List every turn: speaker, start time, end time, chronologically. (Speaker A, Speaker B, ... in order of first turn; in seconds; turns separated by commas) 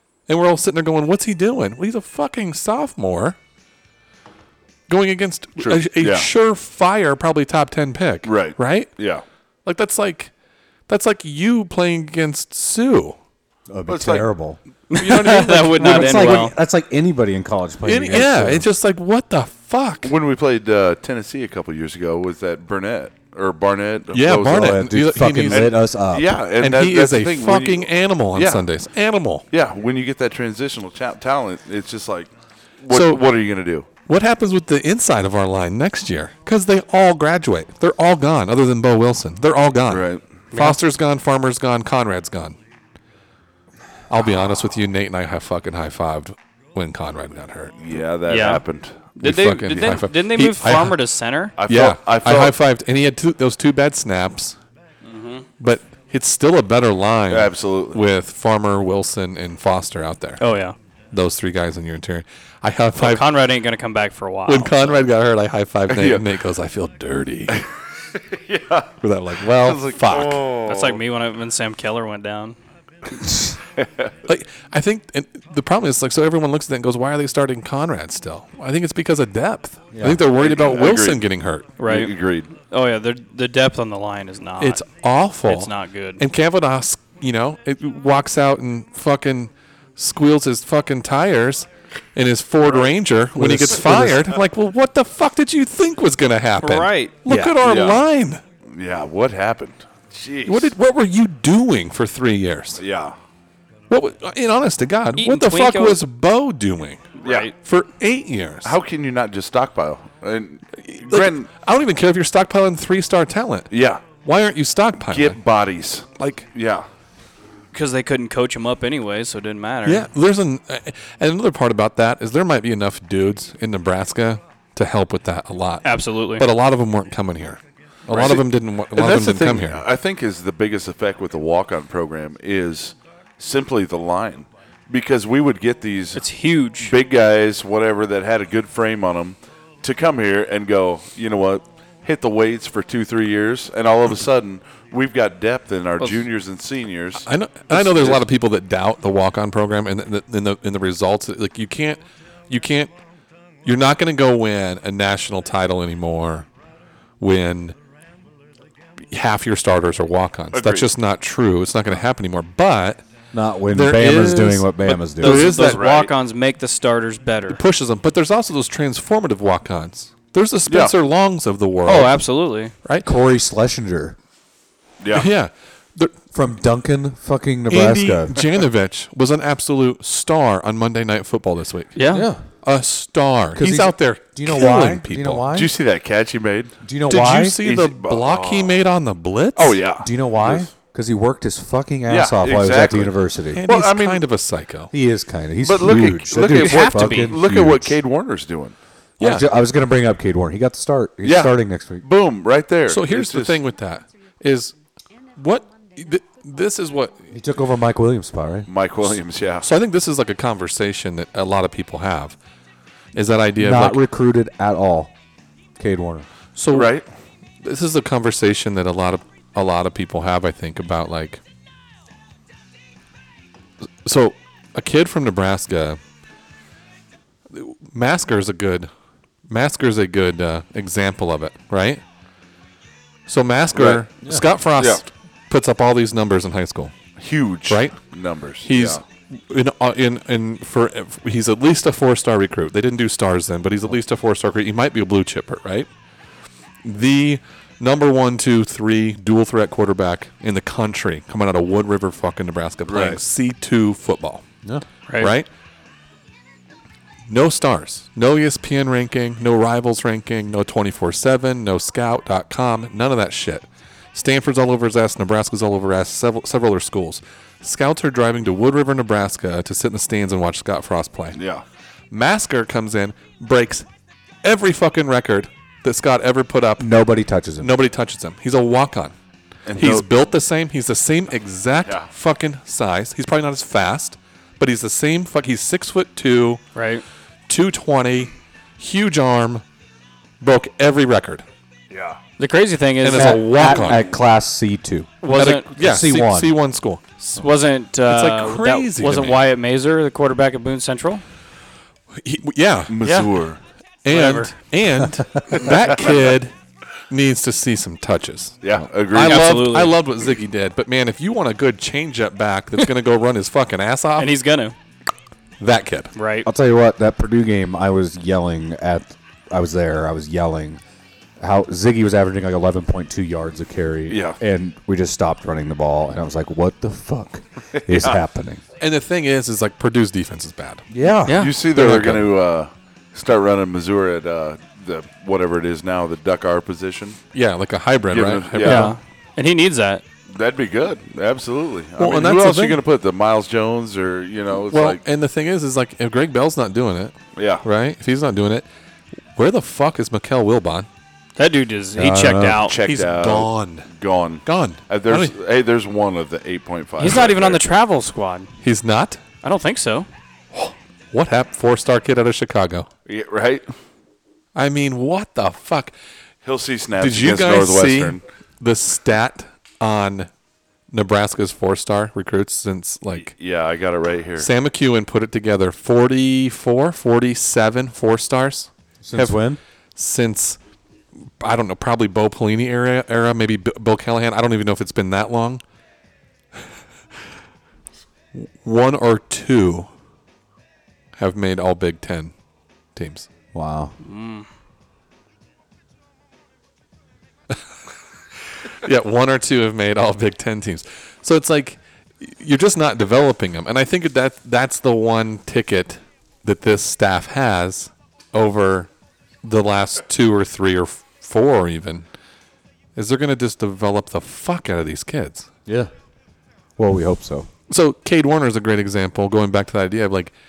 Speaker A: 0.3-3.4, Speaker A: 4.9-8.9, Speaker B: 5.6-6.3, Speaker B: 8.2-9.2, Speaker A: 9.6-10.3, Speaker A: 10.9-13.2, Speaker C: 13.7-14.6, Speaker B: 13.9-14.3, Speaker D: 14.9-16.5, Speaker A: 14.9-16.5, Speaker C: 15.8-18.6, Speaker A: 17.8-20.1, Speaker B: 20.0-24.8, Speaker A: 24.1-25.8, Speaker C: 24.4-26.4, Speaker B: 25.5-28.7, Speaker A: 26.6-29.4, Speaker B: 29.5-33.9, Speaker A: 32.9-33.2, Speaker A: 34.0-42.6, Speaker B: 39.9-40.2, Speaker D: 40.5-40.8, Speaker A: 44.1-47.7, Speaker B: 47.8-49.1, Speaker D: 48.3-48.6, Speaker D: 49.2-51.5, Speaker A: 49.2-51.0, Speaker B: 51.6-52.5, Speaker A: 51.6-54.6, Speaker D: 55.0-55.5, Speaker A: 55.6-60.4, Speaker B: 57.3-58.0, Speaker D: 60.4-60.8, Speaker A: 61.1-63.3, Speaker D: 63.0-65.0, Speaker A: 64.5-67.6, Speaker B: 65.9-66.2, Speaker B: 68.2-68.9, Speaker A: 69.0-70.4, Speaker B: 69.5-71.0, Speaker D: 70.6-72.5, Speaker B: 73.8-74.1, Speaker A: 74.2-81.7, Speaker C: 79.9-80.2, Speaker B: 80.3-81.2, Speaker D: 81.8-84.9, Speaker B: 81.8-82.5, Speaker A: 84.6-98.4, Speaker D: 85.5-86.2, Speaker C: 93.3-94.2, Speaker D: 96.6-97.5, Speaker B: 97.6-98.0, Speaker B: 98.7-100.7, Speaker A: 100.4-102.8, Speaker B: 102.8-103.2, Speaker A: 103.9-108.8, Speaker D: 105.2-106.0, Speaker D: 107.2-107.5, Speaker B: 107.2-107.5, Speaker B: 108.6-111.5, Speaker A: 110.8-113.7, Speaker B: 113.7-114.0, Speaker A: 114.2-115.4, Speaker B: 115.0-116.9, Speaker A: 116.2-116.5, Speaker D: 117.7-120.1, Speaker A: 119.8-129.8, Speaker D: 125.8-126.5, Speaker B: 128.1-136.2, Speaker D: 136.1-136.9, Speaker B: 136.8-148.2, Speaker A: 147.2-152.9, Speaker A: 153.6-156.5, Speaker A: 157.2-157.8, Speaker A: 159.1-163.0, Speaker B: 160.5-160.9, Speaker C: 163.3-165.4, Speaker A: 163.7-165.8, Speaker D: 165.0-167.6, Speaker B: 165.5-166.1, Speaker A: 167.5-172.2, Speaker B: 170.7-170.9, Speaker D: 171.8-172.7, Speaker C: 173.0-174.2, Speaker B: 175.0-175.3, Speaker A: 175.1-176.1, Speaker C: 176.3-178.4, Speaker A: 177.7-182.0, Speaker D: 181.9-182.3, Speaker C: 182.1-182.4, Speaker A: 182.6-185.4, Speaker C: 183.6-185.7, Speaker B: 185.5-186.7, Speaker C: 186.8-187.6, Speaker A: 187.1-189.8, Speaker B: 187.6-188.8, Speaker B: 189.5-190.7, Speaker C: 190.0-193.6, Speaker B: 192.1-194.2, Speaker A: 193.5-194.9, Speaker C: 194.9-197.9, Speaker B: 195.6-198.8, Speaker D: 196.4-197.4, Speaker A: 199.2-199.4, Speaker C: 199.2-202.0, Speaker B: 201.2-203.6, Speaker A: 202.9-204.7, Speaker A: 205.3-207.3, Speaker C: 207.3-208.7, Speaker B: 208.7-209.7, Speaker A: 209.0-212.4, Speaker A: 213.1-214.0, Speaker C: 213.6-215.1, Speaker C: 215.8-216.3, Speaker A: 216.6-216.9, Speaker B: 216.7-217.0, Speaker A: 217.6-221.4, Speaker A: 224.0-226.0, Speaker A: 227.5-228.9, Speaker A: 229.5-232.0, Speaker A: 233.3-236.9, Speaker B: 233.7-234.1, Speaker B: 234.7-235.0, Speaker B: 237.2-239.0, Speaker A: 237.7-238.0, Speaker A: 238.6-245.9, Speaker A: 246.8-254.4, Speaker B: 252.9-253.2, Speaker A: 255.2-255.5, Speaker A: 257.3-271.4, Speaker B: 271.3-271.6, Speaker A: 272.1-273.9, Speaker A: 274.4-276.9, Speaker C: 276.8-277.7, Speaker A: 277.6-279.1, Speaker B: 279.7-280.1, Speaker A: 279.7-286.6, Speaker D: 286.7-287.0, Speaker A: 287.5-289.6, Speaker A: 290.4-291.4, Speaker B: 291.9-292.2, Speaker D: 292.4-293.9, Speaker A: 293.0-294.1, Speaker C: 293.1-296.5, Speaker D: 295.2-295.7, Speaker A: 295.3-297.0, Speaker D: 297.2-301.2, Speaker A: 298.1-299.4, Speaker A: 302.1-303.0, Speaker B: 302.9-303.6, Speaker D: 303.0-303.3, Speaker A: 304.0-306.5, Speaker D: 304.1-304.5, Speaker B: 305.5-306.3, Speaker A: 307.1-314.4, Speaker B: 308.6-309.5, Speaker D: 309.1-309.9, Speaker D: 314.2-314.7, Speaker A: 315.6-316.1, Speaker D: 316.1-316.5, Speaker C: 316.4-320.8, Speaker C: 321.4-328.6, Speaker B: 324.1-324.4, Speaker B: 327.9-328.2, Speaker A: 328.8-330.9, Speaker C: 330.9-332.2, Speaker D: 331.2-331.5, Speaker B: 331.3-337.2, Speaker A: 331.7-332.2, Speaker A: 337.3-338.9, Speaker B: 338.1-338.9, Speaker D: 338.6-340.0, Speaker B: 340.3-345.0, Speaker A: 342.0-342.8, Speaker A: 344.6-348.7, Speaker B: 347.3-347.6, Speaker A: 349.4-350.9, Speaker D: 351.4-352.8, Speaker C: 351.9-352.7, Speaker B: 352.6-357.6, Speaker A: 352.8-353.9, Speaker A: 354.4-355.3, Speaker D: 357.0-358.5, Speaker A: 358.6-359.2, Speaker D: 359.4-360.1, Speaker A: 360.5-362.9, Speaker B: 363.1-363.6, Speaker A: 364.5-365.9, Speaker B: 366.4-368.2, Speaker A: 367.0-370.3, Speaker A: 370.9-373.3, Speaker B: 373.1-374.5, Speaker A: 374.4-379.4, Speaker C: 379.0-379.6, Speaker A: 379.9-380.6, Speaker A: 381.4-385.6, Speaker A: 388.3-389.9, Speaker A: 391.1-392.3, Speaker A: 392.9-393.3, Speaker C: 393.5-393.9, Speaker D: 394.0-394.5, Speaker A: 398.6-408.9, Speaker A: 409.4-412.1, Speaker A: 412.9-415.5, Speaker C: 416.8-417.5, Speaker A: 417.7-420.3